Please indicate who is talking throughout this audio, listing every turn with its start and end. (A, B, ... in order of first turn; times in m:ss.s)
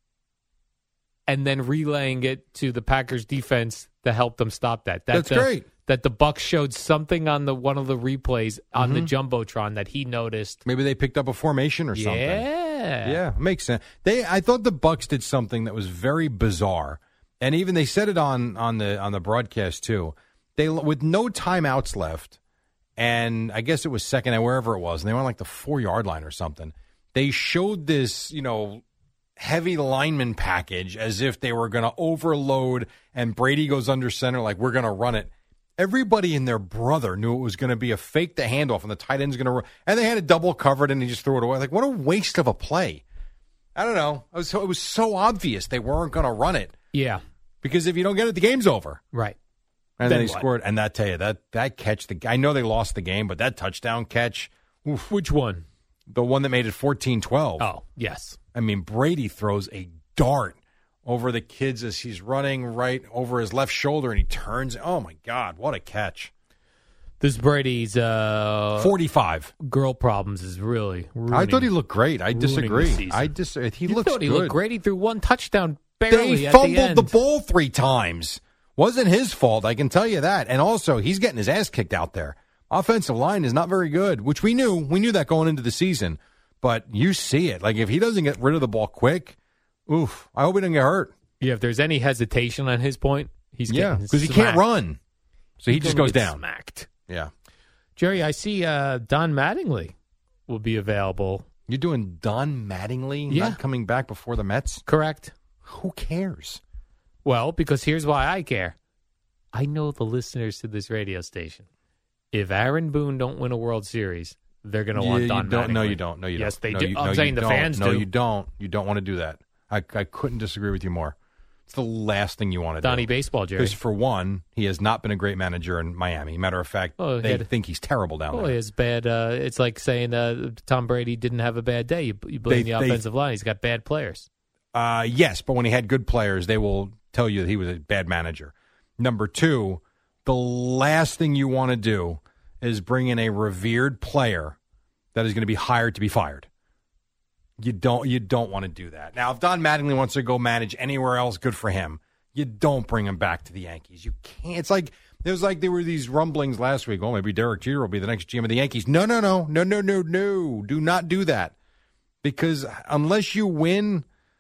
0:01.3-0:10.6 A
0:05.1-0:05.7 B
0:08.8-0:09.1 B
0:10.6-0:12.5 B
0:11.9-0:13.2 A
0:13.0-0:22.4 B
0:23.0-0:28.8 B
0:29.4-0:43.0 B
0:43.8-0:46.7 B
0:46.9-0:47.2 A
0:47.6-0:49.0 B
0:49.1-0:49.4 A
0:50.0-0:55.1 B
0:50.0-0:50.5 A
0:55.1-0:55.7 A
0:56.1-0:57.7 B
0:57.6-0:58.4 A
0:58.5-1:06.3 B
1:07.2-1:08.9 A
1:08.8-1:09.5 B
1:09.6-1:11.7 A
1:11.3-1:14.6 B
1:12.3-1:13.3 A
1:13.9-1:17.2 A
1:16.1-1:29.4 B
1:29.9-1:31.1 B
1:31.4-1:34.6 A
1:33.7-1:35.0 B
1:35.6-1:36.4 B
1:35.7-1:36.9 A
1:38.0-1:39.9 A
1:40.5-1:41.5 A
1:41.7-1:44.8 B
1:43.3-1:43.6 A
1:44.9-1:45.3 A
1:45.7-1:46.6 B
1:47.2-1:48.8 A
1:49.5-1:51.7 A
1:52.3-1:58.1 A
1:55.0-2:01.2 B
2:01.7-2:08.6 B
2:02.8-2:03.8 A
2:07.0-2:07.5 A
2:08.3-2:14.3 A
2:12.5-2:13.0 B
2:14.7-2:24.6 B
2:25.2-2:26.5 B
2:27.6-2:41.5 B
2:42.2-2:44.0 B